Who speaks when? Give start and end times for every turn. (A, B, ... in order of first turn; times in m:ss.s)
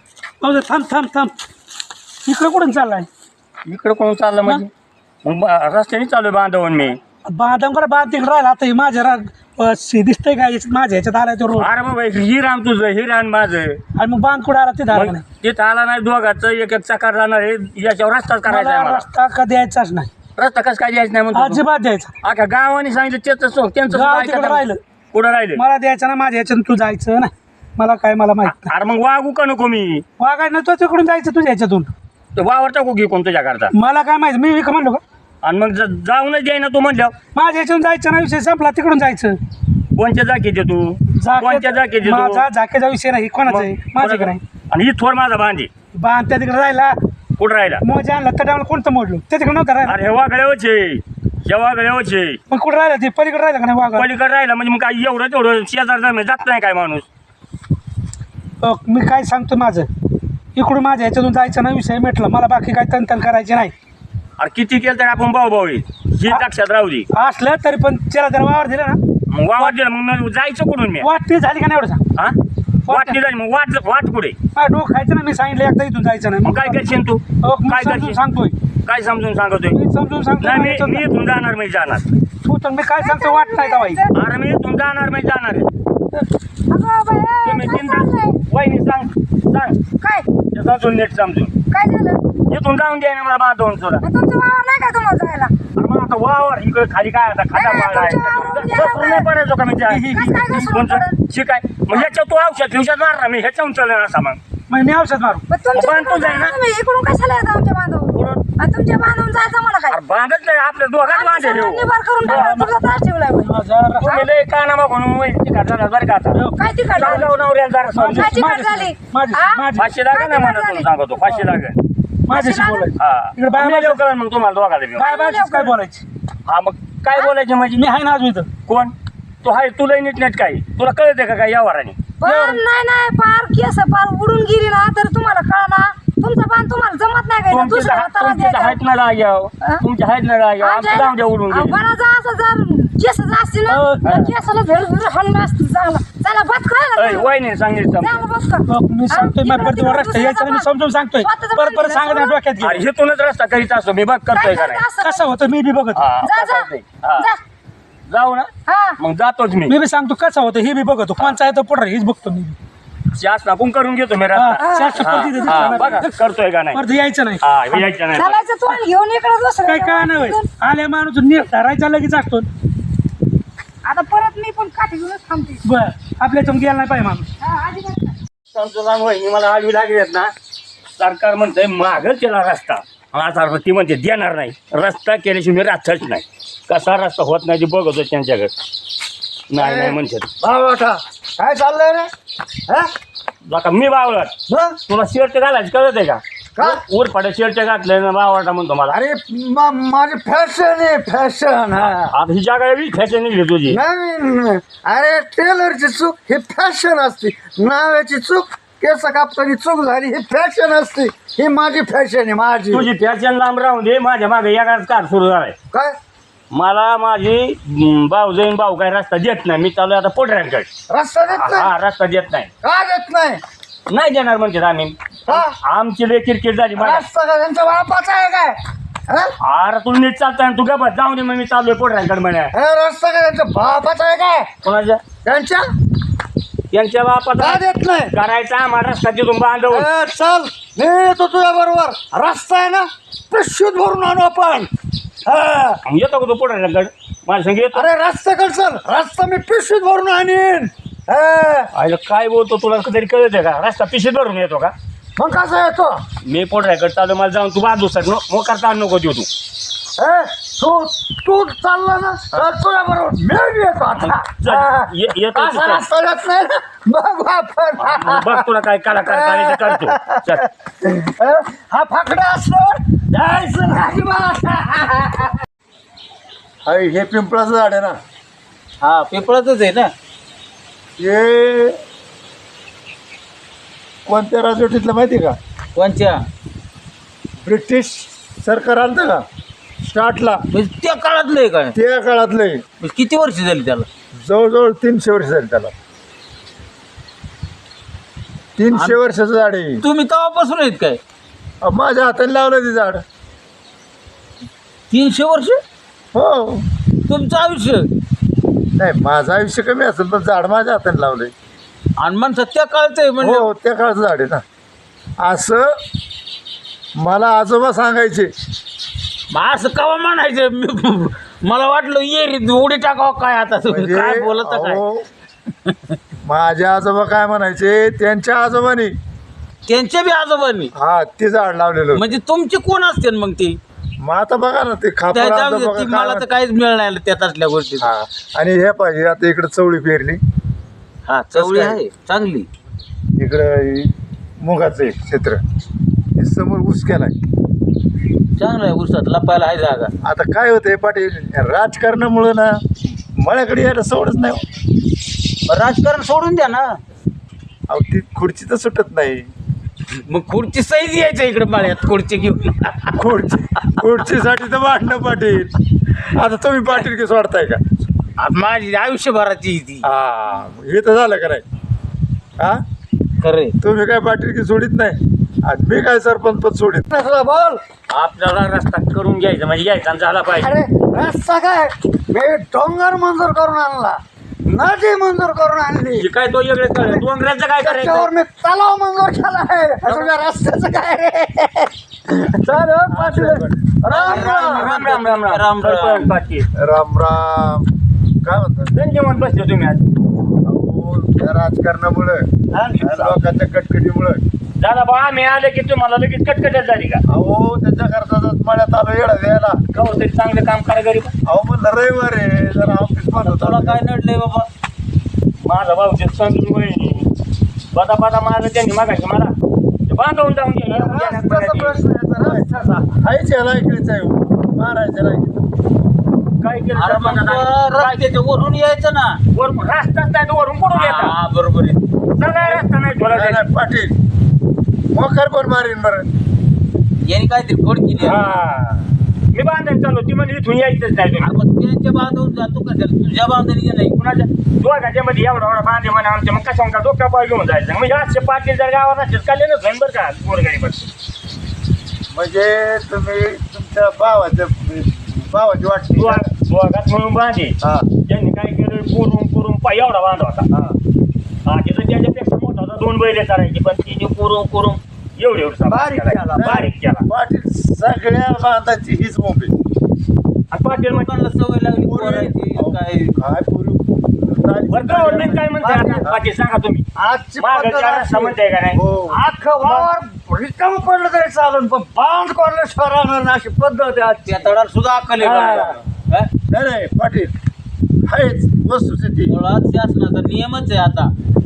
0:00.4-0:01.3 A
0:02.3-0:03.1 A
0:03.7-0:04.7 B
0:05.2-0:07.0 B
0:07.3-0:11.7 A
0:11.6-0:13.8 B
0:14.0-0:15.2 A
0:14.9-0:19.1 B
0:18.4-0:20.1 A
0:20.4-0:21.6 B
0:21.3-0:22.1 A
0:22.2-0:25.6 B
0:23.9-0:24.8 A
0:25.6-0:28.7 A
0:28.4-0:30.0 B
0:30.2-0:31.9 A
0:32.4-0:33.7 B
0:33.7-0:35.0 A
0:35.4-0:37.2 B
0:37.4-0:39.4 A
0:40.0-0:42.5 B
0:41.1-0:44.4 A
0:43.5-0:45.7 B
0:46.0-0:47.0 A
0:47.4-0:47.8 B
0:47.8-0:50.0 A
0:49.9-0:52.4 B
0:52.5-0:54.1 A
0:53.9-0:57.1 B
0:58.6-0:59.9 A
1:00.6-1:03.7 A
1:04.4-1:07.1 B
1:07.1-1:09.0 A
1:09.3-1:11.1 B
1:11.0-1:12.0 A
1:12.9-1:13.2 A
1:12.9-1:14.4 B
1:14.6-1:16.8 A
1:16.4-1:18.2 B
1:17.4-1:18.6 A
1:18.8-1:19.8 B
1:19.7-1:21.1 A
1:20.4-1:22.1 B
1:22.4-1:24.0 A
1:23.0-1:24.1 C
1:24.1-1:25.7 B
1:26.7-1:28.4 C
1:27.4-1:29.8 B
1:30.0-1:30.3 C
1:30.5-1:31.5 B
1:31.7-1:32.2 C
1:32.5-1:34.0 B
1:34.0-1:35.5 C
1:35.8-1:44.4 B
1:37.6-1:39.3 C
1:39.9-1:40.6 A
1:40.1-1:41.2 C
1:44.7-1:45.4 A
1:45.5-1:50.0 C
1:45.7-1:46.6 B
1:48.1-1:48.4 B
1:49.9-1:52.6 B
1:51.1-1:54.3 C
1:52.2-1:52.7 A
1:53.4-1:54.1 A
1:54.0-1:56.4 B
1:56.6-1:57.3 C
1:57.0-1:58.5 B
1:57.9-1:59.9 A
1:58.0-2:00.9 C
1:59.8-2:01.8 B
2:02.3-2:04.0 A
2:02.3-2:02.9 C
2:03.0-2:05.1 B
2:05.0-2:06.0 A
2:05.0-2:05.8 C
2:06.5-2:07.9 B
2:07.8-2:08.5 A
2:08.7-2:12.0 B
2:12.2-2:18.8 C
2:12.2-2:12.6 A
2:17.5-2:21.8 B
2:20.6-2:27.3 C
2:23.7-2:24.2 A
2:27.0-2:28.3 B
2:28.0-2:32.4 C
2:28.7-2:32.9 A
2:32.6-2:34.8 B
2:34.3-2:35.4 C
2:35.0-2:36.0 A
2:36.0-2:37.3 B
2:36.2-2:37.4 C
2:38.1-2:39.8 B
2:38.7-2:39.0 C
2:39.7-2:42.6 A
2:43.1-2:46.8 B
2:44.3-2:46.2 A
2:44.6-2:46.0 C
2:46.7-2:47.8 A
2:47.4-2:48.4 B
2:48.1-2:50.5 C
2:49.6-2:52.5 A
2:53.8-2:55.6 C
2:55.6-2:57.3 A
2:57.4-2:58.2 C
2:58.5-3:00.3 B
3:01.0-3:08.5 B
3:09.5-3:10.3 B
3:09.6-3:12.1 D
3:13.4-3:14.4 B
3:14.5-3:14.8 D
3:14.9-3:19.0 B
3:16.6-3:16.8 D
3:18.9-3:22.1 D
3:22.1-3:23.8 B
3:23.7-3:32.9 D
3:32.7-3:35.6 B
3:36.5-3:40.7 B
3:40.9-3:41.7 D
3:41.4-3:42.5 B
3:42.6-3:43.4 D
3:43.9-3:47.0 B
3:45.3-3:45.6 D
3:46.8-3:49.3 D
3:49.4-3:52.5 B
3:52.5-3:54.5 D
3:54.6-3:55.0 B
3:55.2-3:55.6 D
3:56.7-3:59.9 B
3:57.4-3:58.1 D
3:59.7-4:04.7 D
4:05.2-4:05.8 D
4:05.9-4:07.9 B
4:07.7-4:11.7 D
4:11.7-4:14.7 B
4:15.2-4:16.0 D
4:16.3-4:19.3 B
4:20.0-4:28.5 D
4:24.0-4:25.8 B
4:27.8-4:30.5 B
4:29.0-4:35.4 D
4:36.7-4:38.0 E
4:38.8-4:39.9 F
4:41.0-4:41.8 E
4:44.1-4:45.4 E
4:45.8-4:46.2 F
4:47.4-4:49.2 E
4:49.8-4:50.4 E
4:50.6-4:51.7 F
4:51.8-4:52.6 E
4:52.8-4:53.9 F
4:54.2-4:55.7 E
4:58.6-4:59.8 E
4:59.8-5:01.0 F
5:01.6-5:03.0 E
5:04.9-5:05.6 F
5:06.1-5:06.7 E
5:07.1-5:07.8 F
5:08.8-5:11.3 E
5:12.0-5:13.4 F
5:13.2-5:14.4 E
5:15.2-5:15.8 E
5:17.0-5:18.3 E
5:19.3-5:24.8 F
5:23.7-5:25.1 E
5:26.2-5:29.0 E
5:29.7-5:30.6 F
5:30.8-5:32.1 E
5:32.0-5:33.6 F
5:34.0-5:36.3 E
5:35.1-5:37.8 F
5:37.8-5:40.2 E
5:41.1-5:42.5 F
5:41.3-5:41.8 E
5:43.2-5:45.4 E
5:46.2-5:47.2 E
5:48.4-5:49.9 F
5:50.0-5:52.6 E
5:53.2-5:54.4 E
5:55.5-5:56.7 F
5:57.7-5:59.3 E
6:00.1-6:02.9 F
6:02.9-6:07.6 E
6:08.2-6:09.8 F
6:09.8-6:11.4 E
6:13.2-6:13.5 F
6:13.6-6:16.9 E
6:16.9-6:17.6 D
6:17.9-6:20.5 B
6:20.4-6:26.1 D
6:26.0-6:28.1 B
6:26.8-6:27.0 D
6:27.6-6:34.7 D
6:32.9-6:34.5 E
6:33.9-6:36.5 B
6:34.2-6:35.9 F
6:36.6-6:37.7 E
6:38.2-6:38.8 E
6:38.7-6:39.9 B
6:40.4-6:42.3 E
6:42.5-6:43.0 D
6:42.8-6:44.2 E
6:44.6-6:47.0 B
6:47.1-6:49.6 E
6:49.7-6:51.1 B
6:51.2-6:53.8 E
6:53.2-6:54.5 F
6:55.4-6:57.1 B
6:57.7-6:59.3 B
6:59.9-7:01.8 B
7:00.7-7:02.9 D
7:02.2-7:05.5 E
7:06.4-7:08.1 B
7:06.8-7:09.1 F
7:09.3-7:11.2 B
7:11.0-7:11.8 F
7:12.2-7:13.5 B
7:12.2-7:14.0 E
7:14.9-7:16.1 E
7:17.0-7:18.2 F
7:18.0-7:18.9 E
7:19.3-7:21.4 B
7:21.3-7:24.0 F
7:24.0-7:30.9 B
7:32.1-7:36.2 E
7:35.9-7:40.5 B
7:41.5-7:47.0 B
7:45.7-7:46.6 D
7:46.4-7:49.5 E
7:50.5-7:51.1 B
7:51.0-7:53.1 F
7:51.8-7:55.5 E
7:54.7-7:56.8 B
7:55.6-7:56.0 D
7:57.0-7:58.4 D
7:57.4-7:58.8 B
7:58.7-7:59.2 E
7:59.1-8:04.6 D
8:04.3-8:06.3 F
8:05.2-8:05.8 E
8:05.2-8:05.6 B
8:06.5-8:07.3 E
8:08.1-8:09.4 E
8:09.3-8:11.1 F